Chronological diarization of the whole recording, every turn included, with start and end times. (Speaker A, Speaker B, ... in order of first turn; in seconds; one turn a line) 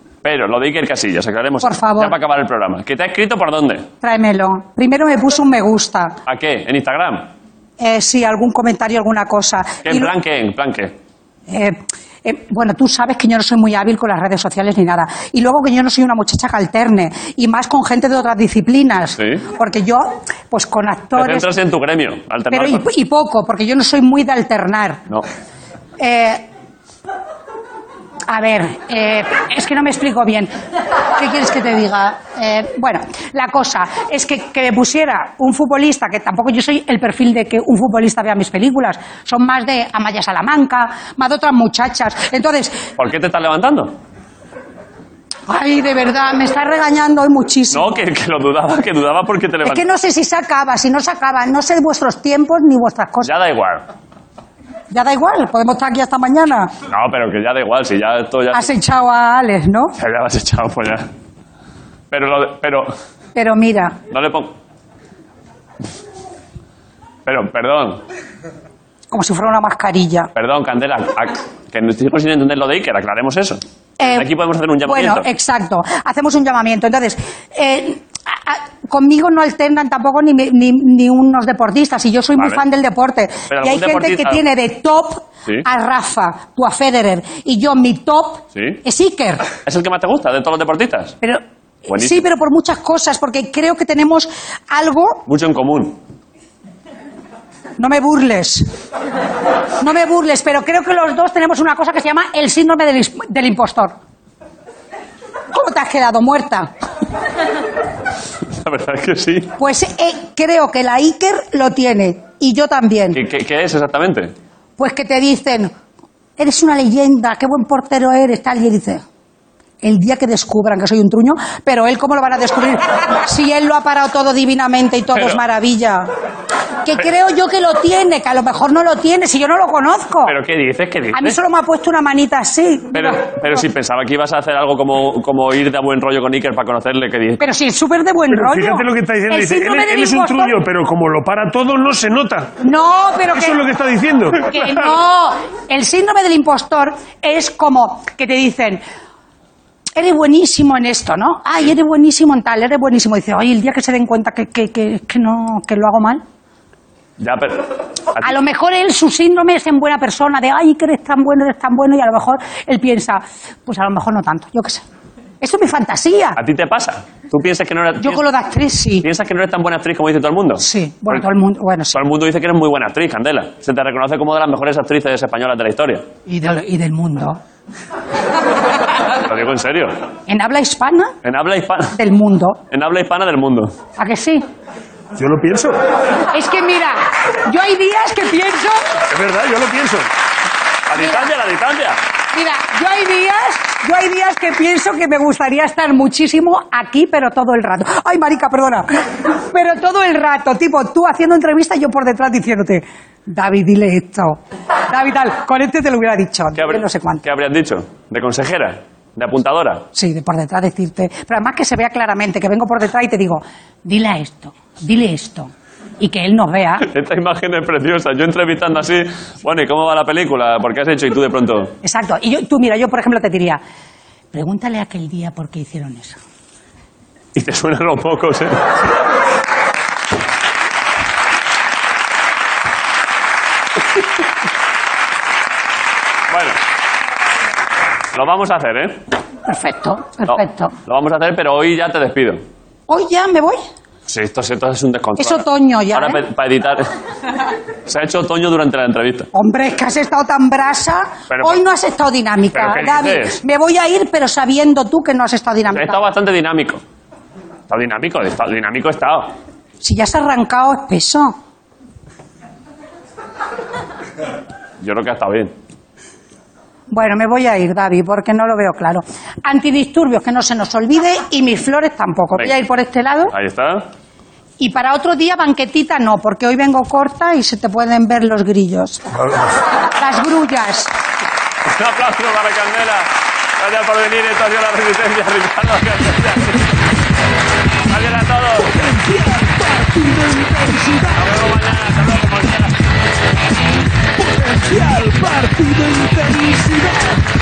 Speaker A: 0.2-3.9
Speaker B: 1.6-2.2
Speaker B: 4.0-6.1
Speaker A: 6.2-7.3
Speaker B: 7.8-10.1
Speaker A: 9.8-10.9
Speaker B: 11.5-21.5
Speaker A: 19.1-19.4
Speaker A: 21.1-22.8
Speaker B: 22.5-25.0
Speaker B: 26.0-26.4
Speaker B: 28.3-30.5
Speaker B: 31.1-42.8
Speaker A: 43.0-43.9
Speaker B: 45.5-48.0
Speaker A: 47.7-49.8
Speaker B: 49.6-53.3
Speaker A: 53.2-53.8
Speaker B: 54.9-56.7
Speaker A: 56.9-58.7
Speaker B: 58.5-59.9
Speaker A: 60.0-61.1
Speaker A: 62.1-62.9
Speaker B: 63.3-63.9
Speaker A: 64.1-64.5
Speaker A: 67.2-68.0
Speaker B: 69.1-70.3
Speaker A: 70.3-75.3
Speaker B: 74.0-74.3
Speaker B: 74.8-89.4
Speaker A: 82.4-82.6
Speaker A: 83.5-84.4
Speaker A: 88.5-88.8
Speaker A: 89.6-91.2
Speaker B: 91.2-95.2
Speaker A: 91.9-92.2
Speaker A: 95.3-96.0
Speaker B: 97.8-98.6
Speaker B: 99.8-103.9
Speaker B: 105.5-106.7
Speaker A: 108.5-109.5
Speaker B: 109.6-113.2
Speaker A: 113.1-114.3
Speaker B: 114.8-115.7
Speaker B: 116.4-119.0
Speaker B: 119.8-126.1
Speaker B: 126.8-130.3
Speaker A: 130.2-131.4
Speaker B: 131.1-133.2
Speaker A: 132.9-137.4
Speaker B: 137.4-140.6
Speaker C: 138.3-142.5
Speaker B: 142.6-143.6
Speaker C: 143.3-144.8
Speaker B: 144.3-148.8
Speaker B: 149.9-156.2
Speaker A: 157.2-158.3
Speaker B: 158.2-164.8
Speaker B: 165.4-166.4
Speaker A: 166.4-168.2
Speaker B: 168.0-169.1
Speaker A: 169.0-171.2
Speaker B: 170.6-172.0
Speaker A: 171.9-176.0
Speaker B: 176.3-177.4
Speaker A: 179.2-179.9
Speaker B: 180.3-181.1
Speaker A: 181.2-182.0
Speaker B: 181.9-182.6
Speaker A: 182.7-183.7
Speaker B: 184.0-184.4
Speaker C: 185.1-185.8
Speaker B: 186.3-188.8
Speaker C: 189.1-190.1
Speaker A: 190.9-192.0
Speaker B: 190.9-191.3
Speaker B: 192.3-198.9
Speaker B: 199.5-207.2
Speaker A: 206.5-209.8
Speaker B: 209.9-216.8
Speaker A: 216.8-221.7
Speaker B: 221.8-223.6
Speaker B: 224.3-226.2
Speaker A: 227.3-228.7
Speaker A: 236.3-236.6
Speaker A: 238.1-239.0
Speaker B: 239.5-240.7
Speaker A: 240.3-242.4
Speaker B: 242.9-243.6
Speaker A: 244.1-246.9
Speaker B: 245.2-246.2
Speaker A: 247.8-249.3
Speaker B: 249.3-256.0
Speaker A: 251.3-251.6
Speaker A: 252.5-253.4
Speaker A: 255.7-256.8
Speaker A: 257.7-259.3
Speaker B: 259.8-261.3
Speaker A: 264.8-265.5
Speaker B: 266.9-273.3
Speaker A: 273.3-273.9
Speaker B: 274.6-279.1
Speaker B: 280.0-280.9
Speaker A: 281.6-286.7
Speaker A: 287.9-288.7
Speaker D: 288.8-290.7
Speaker A: 291.1-292.9
Speaker D: 294.2-296.9